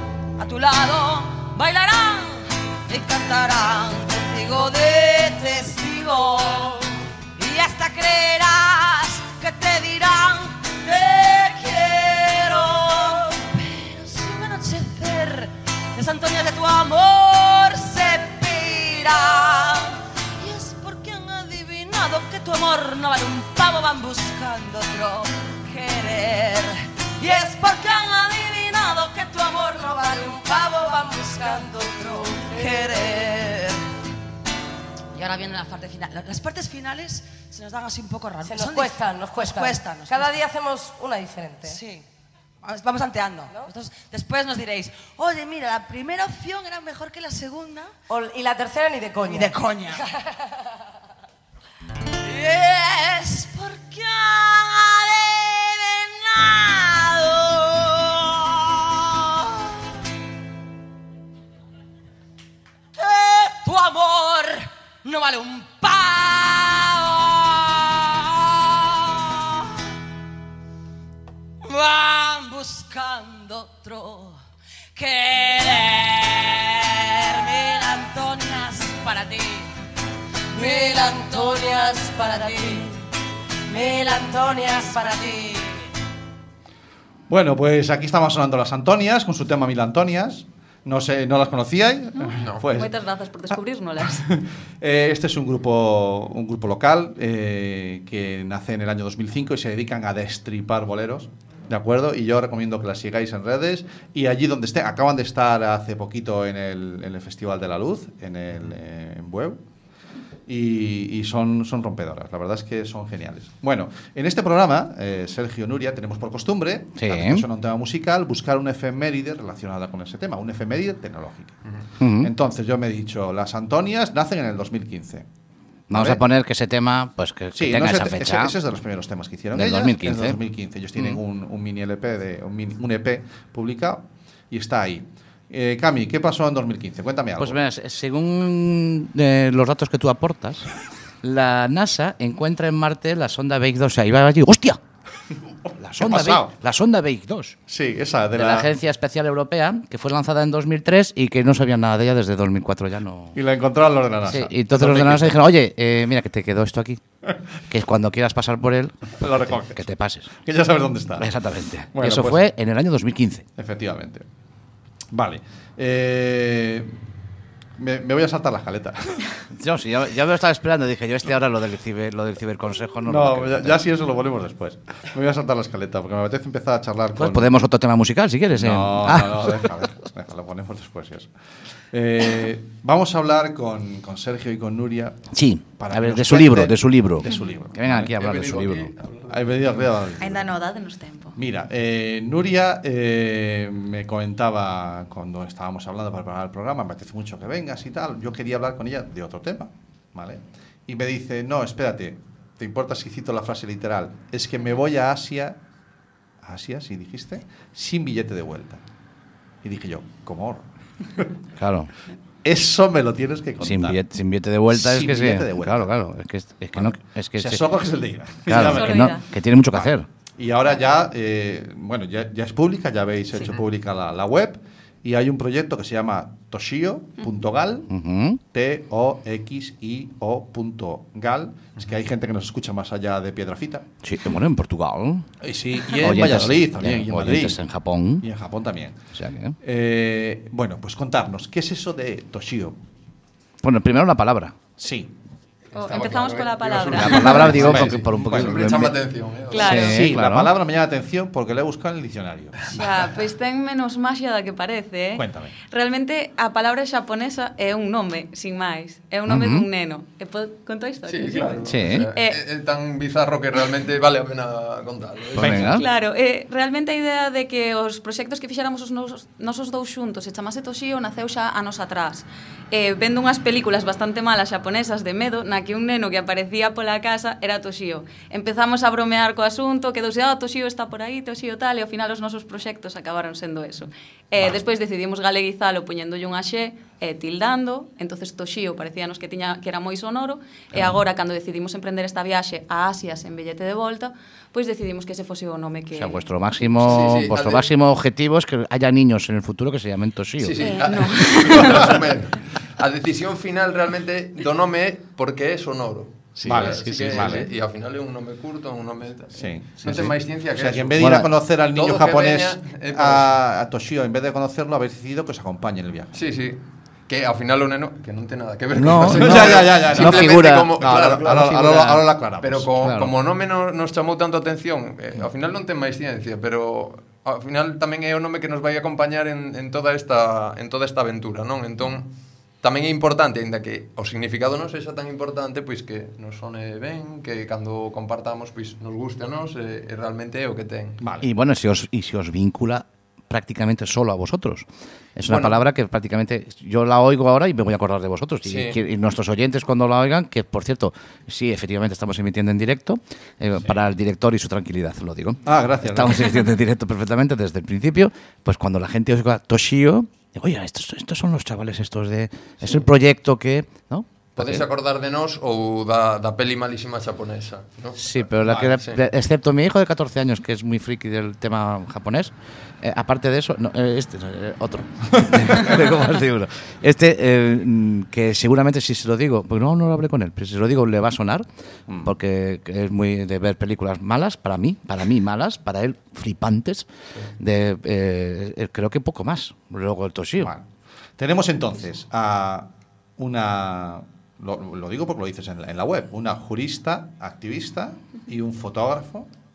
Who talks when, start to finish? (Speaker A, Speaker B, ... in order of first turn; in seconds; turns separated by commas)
Speaker A: 0.4-33.8, Speaker A: 35.1-42.0, Speaker B: 38.5-41.8, Speaker A: 42.6-48.0, Speaker B: 48.1-49.5, Speaker A: 49.1-50.1, Speaker A: 52.2-59.8, Speaker A: 63.0-69.9, Speaker A: 71.6-74.4, Speaker A: 74.9-79.7, Speaker A: 80.5-83.0, Speaker A: 83.7-85.9, Speaker C: 87.3-92.9, Speaker D: 92.2-94.2, Speaker E: 92.4-92.7, Speaker C: 93.5-109.6, Speaker C: 110.5-121.6, Speaker F: 117.0-117.4, Speaker F: 122.0-122.3, Speaker C: 122.2-125.2, Speaker F: 125.9-128.5, Speaker C: 125.9-126.2, Speaker C: 127.5-137.6, Speaker F: 129.5-130.4, Speaker F: 137.4-140.7, Speaker F: 141.2-144.8, Speaker F: 145.8-147.6, Speaker C: 146.0-146.5, Speaker C: 147.7-148.7, Speaker F: 148.3-153.4, Speaker C: 153.3-155.4, Speaker F: 154.2-157.0, Speaker F: 157.7-160.3, Speaker C: 159.2-159.8, Speaker C: 160.4-161.3, Speaker F: 161.2-163.4, Speaker C: 161.9-162.4, Speaker C: 163.6-164.2, Speaker C: 165.1-166.9, Speaker C: 167.8-169.3, Speaker F: 169.5-173.8, Speaker C: 173.0-177.6, Speaker F: 177.2-179.6, Speaker C: 178.5-181.3, Speaker C: 181.9-185.2, Speaker F: 185.3-188.9, Speaker C: 185.8-188.1, Speaker E: 188.0-189.8, Speaker C: 189.3-190.5, Speaker D: 190.2-191.3, Speaker C: 191.3-205.6, Speaker C: 206.4-208.8, Speaker C: 209.6-211.3, Speaker F: 211.6-211.9, Speaker C: 212.4-214.0, Speaker F: 213.6-217.6, Speaker C: 214.7-215.9, Speaker C: 216.8-219.2, Speaker F: 218.4-220.1, Speaker D: 218.5-219.2, Speaker C: 219.7-227.9, Speaker F: 227.9-228.4, Speaker C: 228.5-233.8, Speaker F: 234.0-235.3, Speaker C: 235.4-237.6, Speaker F: 236.0-238.2, Speaker C: 238.2-238.9, Speaker F: 239.1-239.6, Speaker C: 239.6-242.8, Speaker F: 243.6-244.5, Speaker C: 244.8-245.1, Speaker E: 245.7-250.0, Speaker D: 245.8-247.6, Speaker F: 246.8-248.9, Speaker C: 247.2-248.9, Speaker D: 249.5-250.0, Speaker F: 249.5-250.5, Speaker C: 249.7-252.7, Speaker D: 252.7-262.4, Speaker C: 255.2-255.5, Speaker F: 259.3-259.7, Speaker E: 261.0-265.9, Speaker F: 261.6-262.1, Speaker F: 265.3-265.9, Speaker C: 265.4-265.7, Speaker D: 265.7-296.3, Speaker F: 295.9-300.7, Speaker E: 296.8-297.7, Speaker E: 300.4-311.1, Speaker D: 300.6-301.9, Speaker F: 306.4-307.4, Speaker C: 306.4-307.5, Speaker C: 309.3-316.2, Speaker F: 311.0-311.3, Speaker E: 311.6-313.4, Speaker E: 316.1-321.8, Speaker F: 318.7-322.0, Speaker C: 319.0-322.7, Speaker E: 322.4-332.1, Speaker F: 322.8-323.1, Speaker E: 332.6-341.0, Speaker C: 341.0-341.3, Speaker F: 341.2-364.6, Speaker E: 345.3-345.6, Speaker E: 348.4-348.8, Speaker C: 355.4-356.4, Speaker E: 364.4-369.0, Speaker F: 368.0-381.4, Speaker C: 375.3-375.7, Speaker F: 382.0-386.9, Speaker F: 387.4-390.5, Speaker C: 390.4-390.6, Speaker C: 391.2-399.3